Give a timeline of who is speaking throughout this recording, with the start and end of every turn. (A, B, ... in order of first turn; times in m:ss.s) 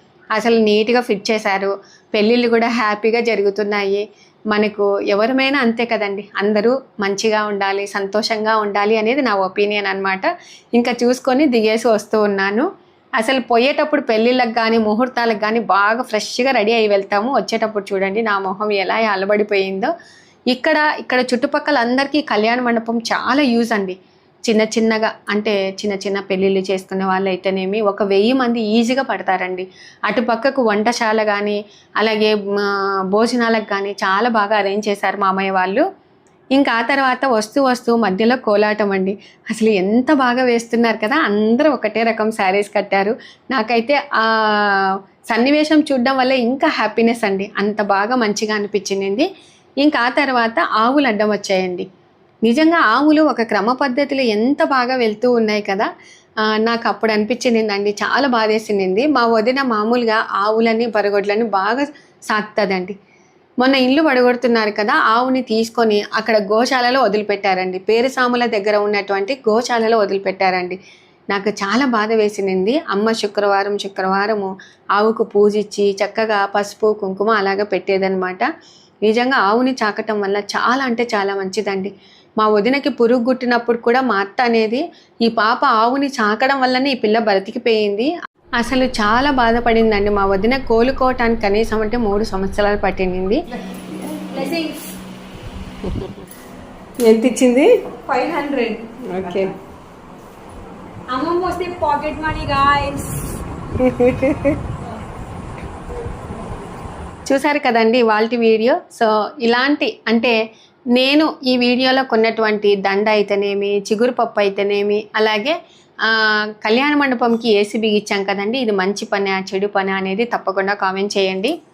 0:00.3-0:12.6 A
0:13.2-0:19.9 A
0:20.5-0:35.8 A
0:36.5-0:49.3 A
0:49.8-0:51.8 A
0:52.4-0:55.9 A
0:56.5-1:02.9 A
1:03.6-1:10.8 A
1:11.3-1:18.5 A
1:19.0-1:33.4 A
1:34.4-1:34.7 B
1:35.8-1:36.1 C
1:37.0-1:37.7 C
1:38.1-1:39.5 B
1:39.1-1:39.5 C
1:41.1-1:43.0 B
1:43.8-1:44.6 C
1:47.3-1:50.4 A
1:50.9-2:01.5 A